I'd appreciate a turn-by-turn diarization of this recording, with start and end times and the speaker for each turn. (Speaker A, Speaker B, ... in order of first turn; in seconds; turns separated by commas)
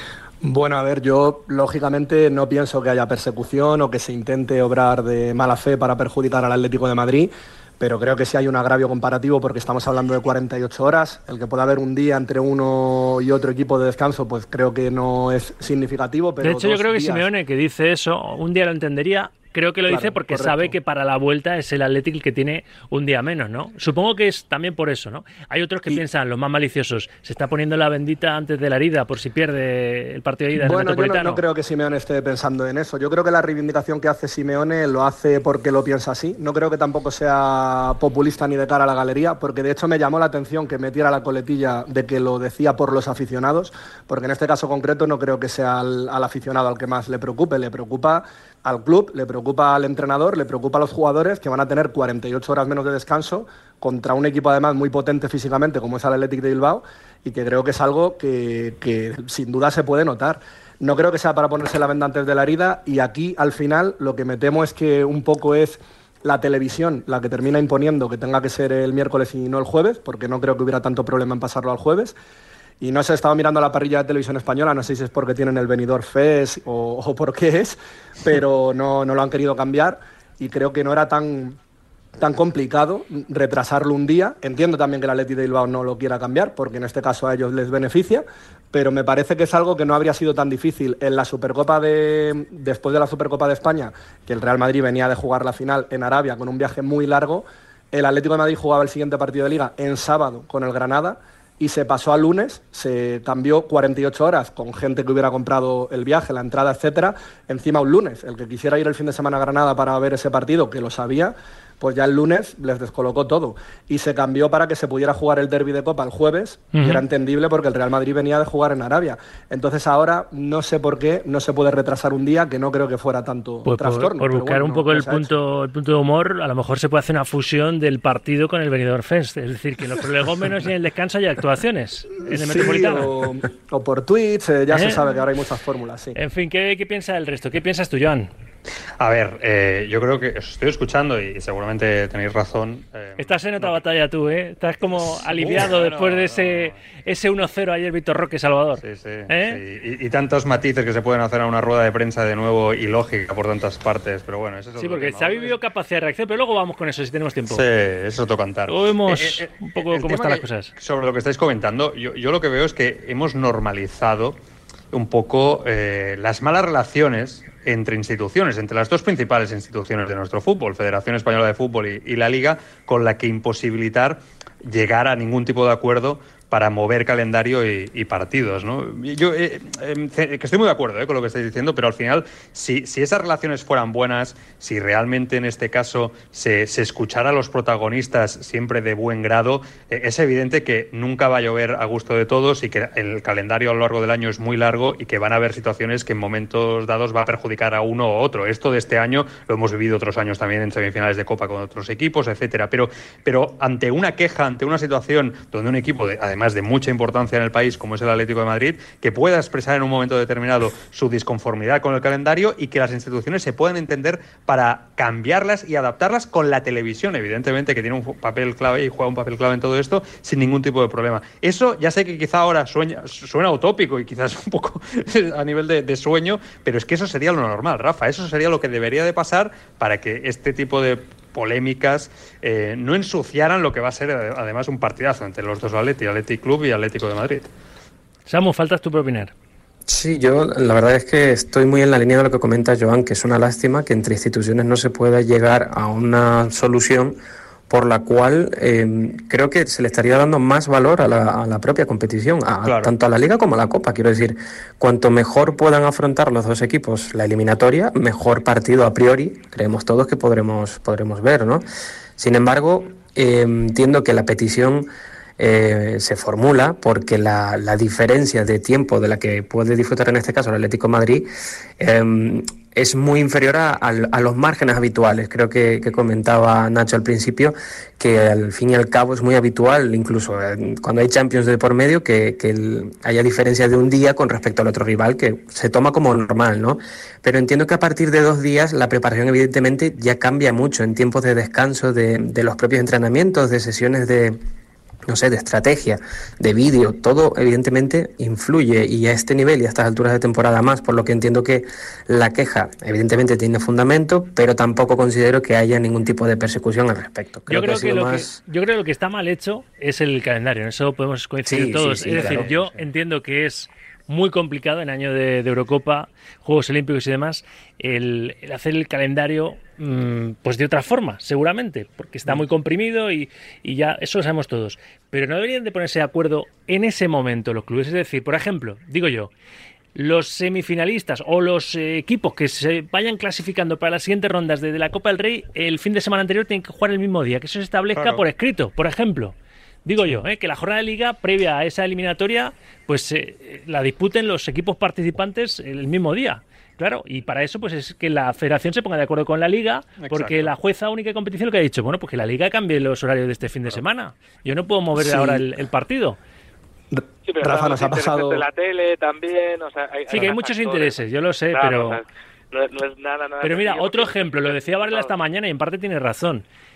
Speaker A: 0.4-17.2, Speaker B: 16.4-31.4, Speaker A: 19.9-20.7, Speaker A: 30.6-72.1, Speaker A: 72.8-81.6, Speaker A: 82.2-125.3, Speaker B: 116.7-117.0, Speaker B: 123.6-133.1, Speaker A: 132.3-136.2, Speaker B: 134.7-135.0, Speaker B: 136.1-138.3, Speaker C: 139.0-143.8, Speaker B: 143.2-149.6, Speaker C: 145.3-146.8, Speaker C: 148.8-155.6, Speaker B: 154.8-157.6, Speaker C: 157.5-164.4, Speaker B: 158.7-160.7, Speaker C: 164.9-237.5, Speaker B: 238.3-239.3, Speaker D: 239.9-247.2, Speaker D: 247.7-261.6, Speaker C: 252.6-252.9, Speaker D: 262.2-271.3, Speaker D: 271.8-294.4, Speaker D: 295.1-308.4, Speaker B: 307.5-329.3, Speaker D: 311.4-312.5, Speaker C: 312.2-312.6, Speaker B: 329.9-356.2, Speaker C: 337.9-338.2, Speaker C: 350.0-350.5, Speaker A: 354.9-355.4, Speaker A: 356.9-358.4, Speaker E: 357.2-365.1, Speaker B: 360.1-362.0, Speaker B: 363.4-366.4